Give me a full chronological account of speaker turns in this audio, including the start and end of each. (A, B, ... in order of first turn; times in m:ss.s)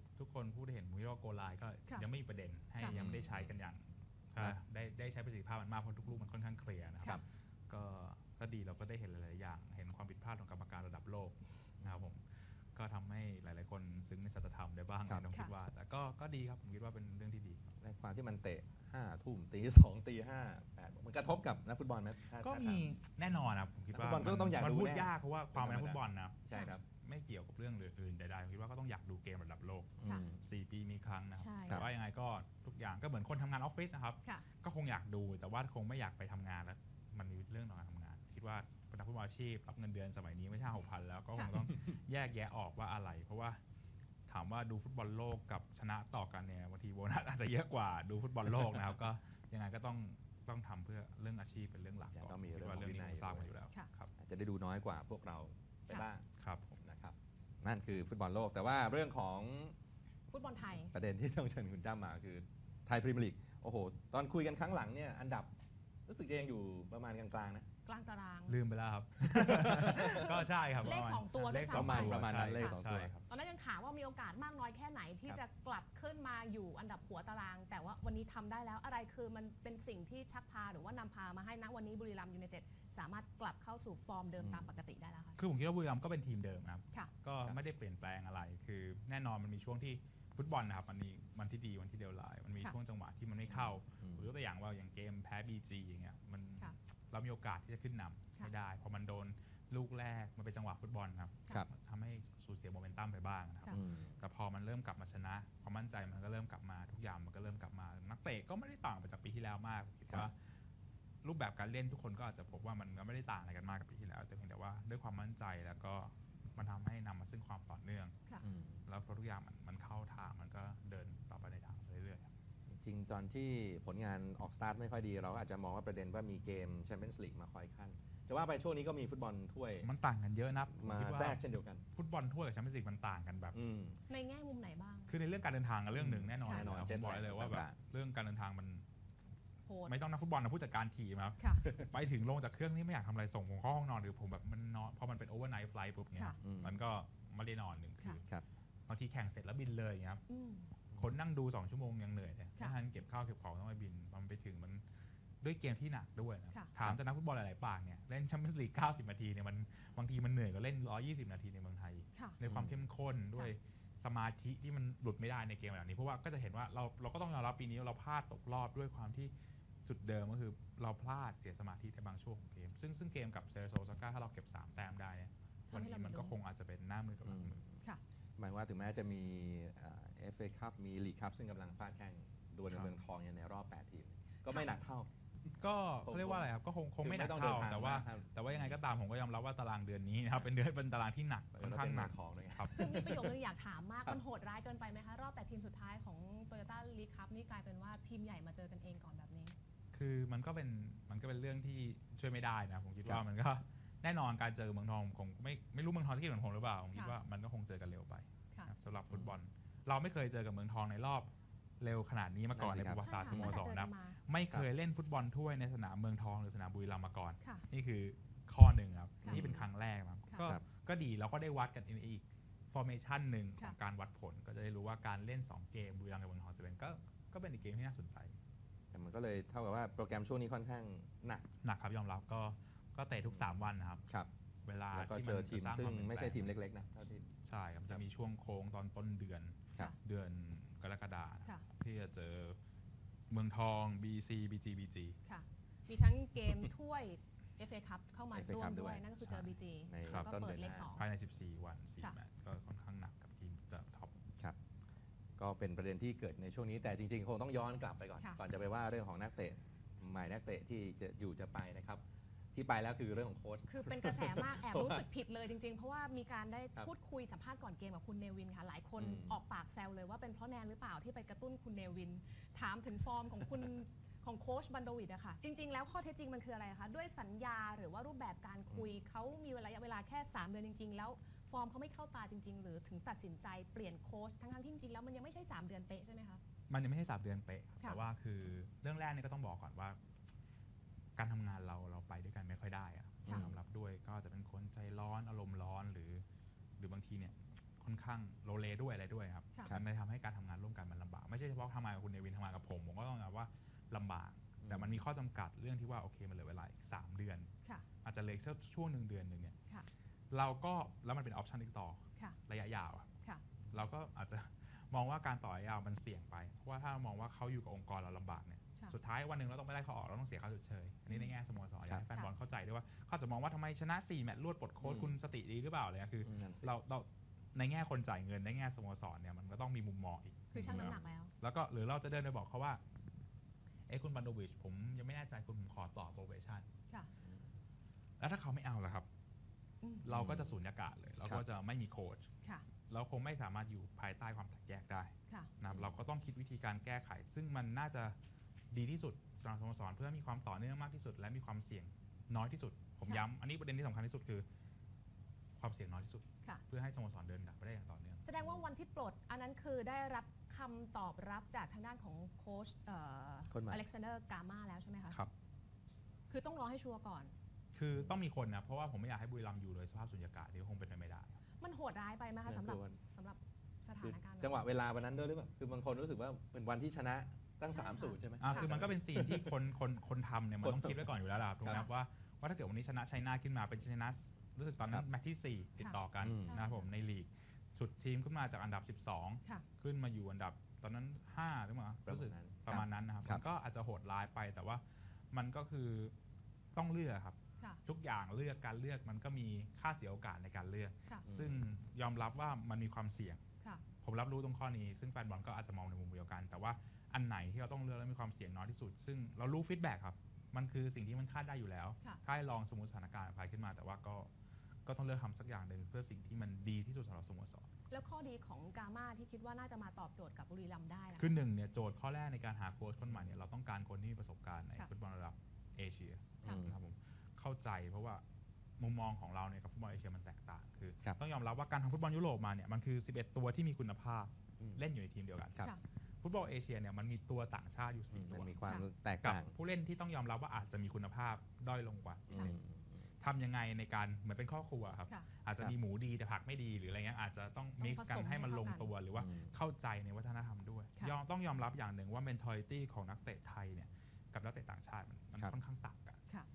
0:00.2-0:17.7 A
0:02.8-0:03.6 B
0:15.1-0:15.3 B
0:17.8-0:22.9 B
0:22.4-0:43.6 A
0:23.9-0:26.8 B
0:30.0-0:30.4 B
0:31.4-0:31.9 C
0:44.3-0:54.1 A
0:52.1-0:53.5 B
0:54.2-0:56.3 B
0:56.4-0:56.8 A
0:56.8-0:59.8 B
1:00.3-1:00.9 C
1:00.9-1:05.6 B
1:06.1-1:07.7 B
1:07.9-1:08.6 C
1:08.5-1:13.2 A
1:09.4-1:10.3 B
1:09.8-1:25.4 C
1:11.7-1:13.1 B
1:24.4-1:24.7 B
1:25.4-1:50.4 A
1:33.5-1:34.3 B
1:43.7-1:44.2 B
1:51.2-2:02.3 A
1:58.4-1:58.8 B
2:02.7-2:09.9 B
2:09.8-2:13.6 A
2:10.7-2:11.8 B
2:13.5-2:14.0 B
2:14.1-2:15.2 C
2:15.1-2:18.8 A
2:16.0-2:17.8 B
2:19.7-2:19.9 C
2:19.9-2:28.2 A
2:26.4-2:26.8 B
2:28.9-2:30.2 A
2:30.3-2:30.7 C
2:30.9-2:34.8 A
2:35.4-2:49.3 A
2:42.4-2:42.8 B
2:49.8-2:57.6 A
2:55.7-2:56.4 C
2:57.2-2:57.8 B
2:58.4-3:05.1 B
3:05.6-3:12.8 A
3:06.0-3:06.5 B
3:07.0-3:08.8 B
3:11.6-3:13.3 B
3:12.7-3:19.6 C
3:19.9-3:48.4 A
3:29.1-3:29.4 B
3:32.6-3:33.6 B
3:33.0-3:34.2 C
3:39.2-3:39.7 B
3:48.9-3:51.5 B
3:51.6-3:54.1 A
3:54.6-3:56.6 A
3:54.9-3:57.3 B
3:57.4-4:02.6 A
4:03.3-4:05.2 A
4:05.3-4:11.0 C
4:08.3-4:09.1 B
4:09.9-4:10.9 B
4:10.9-4:14.2 A
4:15.4-4:25.0 B
4:23.7-4:46.4 C
4:29.0-4:29.4 B
4:46.7-4:50.0 A
4:51.2-4:56.2 A
4:53.3-4:53.6 B
4:56.8-5:07.5 A
5:04.6-5:05.0 B
5:08.0-5:09.8 A
5:10.3-5:13.2 A
5:13.7-5:32.8 A
5:24.8-5:25.2 B
5:26.2-5:26.7 B
5:30.5-5:31.3 C
5:33.9-5:36.7 A
5:37.2-5:37.5 B
5:38.2-5:39.1 A
5:40.0-5:42.3 A
5:40.1-5:40.6 B
5:42.9-5:48.2 A
5:45.7-5:45.9 B
5:48.7-5:54.5 A
5:55.6-5:58.3 A
5:58.2-6:05.2 C
6:03.5-6:03.8 B
6:06.3-6:07.3 C
6:07.7-6:11.4 A
6:11.6-6:14.6 C
6:12.5-6:13.0 B
6:14.0-6:19.5 B
6:17.7-6:18.6 C
6:18.4-6:36.2 A
6:20.6-6:21.0 B
6:26.2-6:26.6 B
6:26.5-6:26.9 C
6:32.1-6:33.4 B
6:36.8-6:43.4 A
6:41.2-6:41.6 B
6:44.0-6:54.3 A
6:54.9-6:57.7 A
6:57.9-7:01.3 C
7:01.2-7:08.2 A
7:06.4-7:06.8 B
7:08.8-7:18.6 A
7:18.1-7:19.5 B
7:19.2-7:22.6 A
7:22.3-7:23.1 B
7:23.2-7:36.2 A
7:27.8-7:28.9 C
7:29.2-7:29.5 B